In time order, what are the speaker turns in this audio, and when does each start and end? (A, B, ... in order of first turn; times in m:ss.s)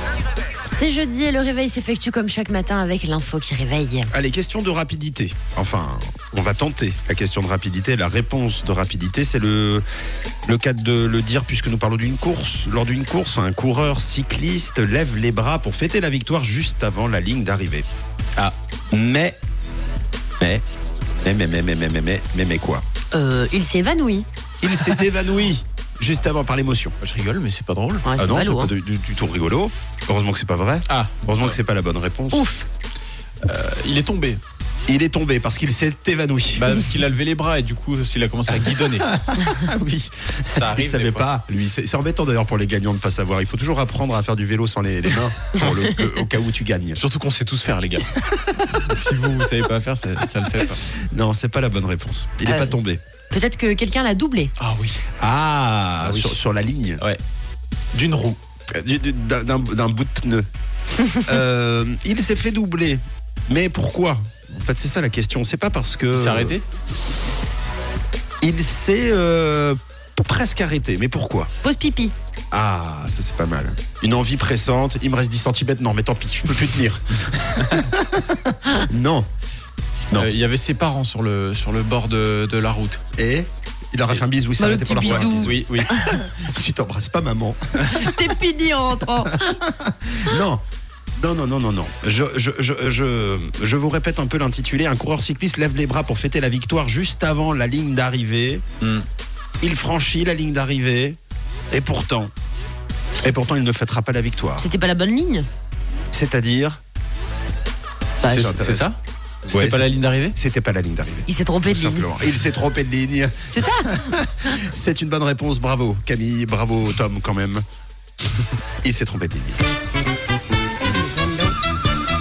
0:00.6-0:04.1 A
0:04.1-0:09.8 B
0:10.5-0:17.8 B
0:18.9-0:19.4 B
0:21.2-0:22.8 B
0:23.1-0:24.3 A
0:24.6-0:27.0 B
0:27.0-0:28.0 C
0:28.0-0:28.7 A
0:28.2-0:32.4 B
0:30.9-0:31.6 C
0:32.3-0:32.7 A
0:33.4-0:34.4 C
0:34.9-0:36.8 B
0:36.5-0:39.1 C
0:38.9-0:47.0 B
0:40.5-0:41.3 C
0:47.0-0:48.1 C
0:48.7-0:50.8 C
0:50.9-0:53.0 B
0:52.4-0:52.7 A
0:53.3-0:54.5 A
0:54.6-0:55.0 C
0:55.2-0:57.0 B
0:56.0-0:56.4 C
0:57.9-0:58.4 C
0:58.7-1:00.5 B
1:01.1-1:06.6 B
1:06.1-1:06.6 C
1:08.4-1:11.5 B
1:11.6-1:12.1 A
1:12.5-1:19.3 B
1:17.6-1:17.9 C
1:20.1-1:23.0 C
1:23.2-1:28.3 B
1:24.6-1:26.1 A
1:25.0-1:25.9 C
1:27.9-1:29.5 A
1:29.2-1:30.6 B
1:31.2-1:38.6 B
1:39.6-1:41.2 B
1:41.7-1:42.3 B
1:43.2-1:44.7 B
1:44.6-1:45.5 A
1:46.1-1:46.8 B
1:48.2-1:48.6 A
1:48.2-1:48.9 B
1:48.4-1:50.4 C
1:49.5-1:57.6 B
1:51.3-1:52.1 A
1:53.5-1:54.1 A
1:58.8-1:59.6 B
2:00.8-2:01.5 A